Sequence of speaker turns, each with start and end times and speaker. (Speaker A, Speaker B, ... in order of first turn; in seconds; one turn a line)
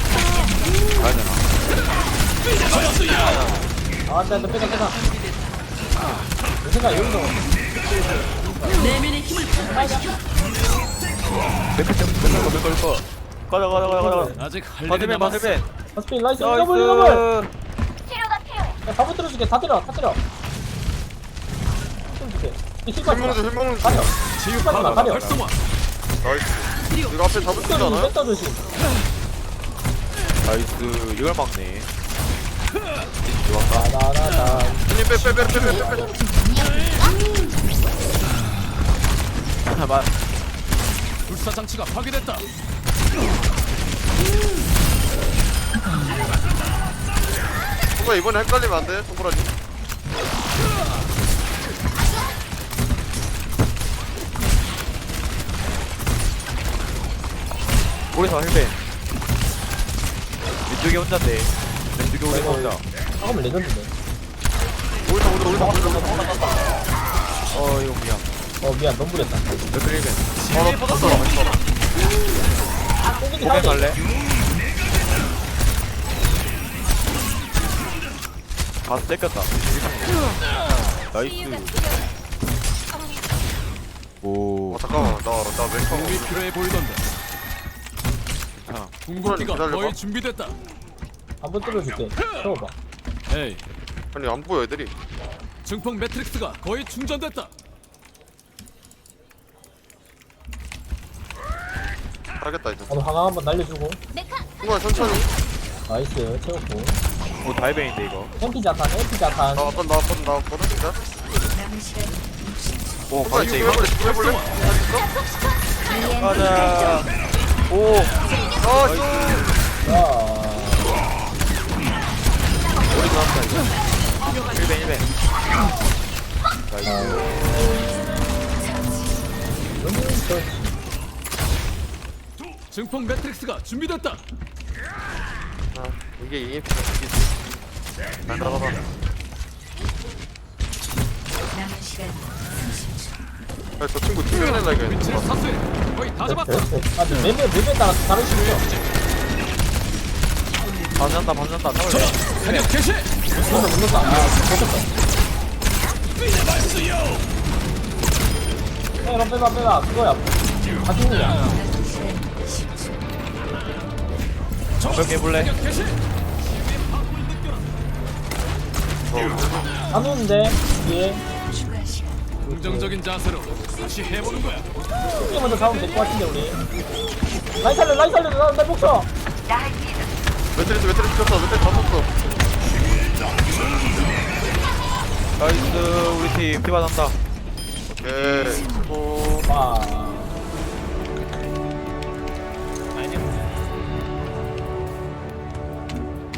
Speaker A: 1.0-1.4
Speaker B: 4.1-5.0
Speaker B: 6.6-7.4
Speaker B: 8.5-10.2
Speaker A: 11.8-15.7
Speaker B: 13.8-14.3
Speaker C: 14.4-15.6
Speaker B: 15.9-17.3
Speaker A: 16.4-17.5
Speaker B: 18.9-20.2
Speaker B: 22.1-25.3
Speaker D: 23.0-24.2
Speaker C: 24.4-25.6
Speaker A: 24.7-25.4
Speaker D: 26.2-28.1
Speaker B: 27.6-28.6
Speaker A: 30.4-31.9
Speaker A: 33.2-33.9
Speaker B: 33.7-34.9
Speaker D: 34.8-36.2
Speaker A: 39.7-40.1
Speaker C: 41.3-42.5
Speaker D: 48.0-49.5
Speaker A: 58.1-58.8
Speaker A: 60.7-62.8
Speaker B: 62.3-63.9
Speaker D: 65.0-66.6
Speaker B: 65.5-66.5
Speaker A: 67.5-68.2
Speaker B: 68.6-69.5
Speaker A: 69.7-70.3
Speaker D: 70.5-71.6
Speaker C: 70.6-71.2
Speaker A: 71.2-71.5
Speaker B: 73.1-74.0
Speaker A: 73.4-74.0
Speaker A: 78.9-80.2
Speaker A: 81.1-81.8
Speaker A: 84.2-84.8
Speaker D: 84.7-86.4
Speaker C: 85.9-87.0
Speaker A: 88.6-89.0
Speaker C: 89.0-90.6
Speaker D: 89.1-90.0
Speaker B: 91.4-92.7
Speaker C: 93.3-93.6
Speaker D: 94.1-94.9
Speaker C: 95.6-97.5
Speaker D: 102.4-102.9
Speaker B: 102.9-104.0
Speaker D: 104.6-105.3
Speaker B: 105.9-107.0
Speaker A: 107.4-108.3
Speaker B: 108.4-109.7
Speaker D: 109.6-111.0
Speaker E: 111.5-113.2
Speaker A: 113.1-114.0
Speaker D: 113.2-115.1
Speaker C: 113.5-114.5
Speaker E: 115.9-116.9
Speaker A: 116.2-117.1
Speaker A: 117.7-119.5
Speaker D: 118.6-119.5
Speaker B: 119.8-120.9
Speaker A: 122.9-123.7
Speaker A: 124.3-125.1
Speaker A: 126.7-127.3
Speaker B: 126.8-127.2
Speaker E: 127.6-129.3
Speaker B: 129.8-130.8
Speaker C: 132.7-134.2
Speaker D: 135.7-137.5
Speaker D: 138.3-138.9
Speaker E: 141.5-143.2
Speaker D: 143.8-145.3
Speaker C: 144.3-146.7
Speaker B: 146.3-148.6
Speaker C: 148.3-148.8
Speaker A: 151.0-152.7
Speaker C: 151.9-153.1
Speaker B: 153.4-154.9
Speaker B: 159.0-161.6
Speaker E: 161.4-163.1
Speaker C: 164.8-166.0
Speaker A: 164.8-165.6
Speaker C: 166.6-167.7
Speaker D: 169.1-169.7
Speaker B: 169.9-171.2
Speaker E: 171.5-172.3
Speaker B: 172.4-172.9
Speaker C: 172.5-174.7
Speaker B: 175.2-176.6
Speaker B: 177.6-179.1
Speaker D: 180.6-182.2
Speaker A: 185.4-187.2
Speaker D: 188.0-189.5
Speaker E: 188.2-189.0
Speaker B: 189.5-190.3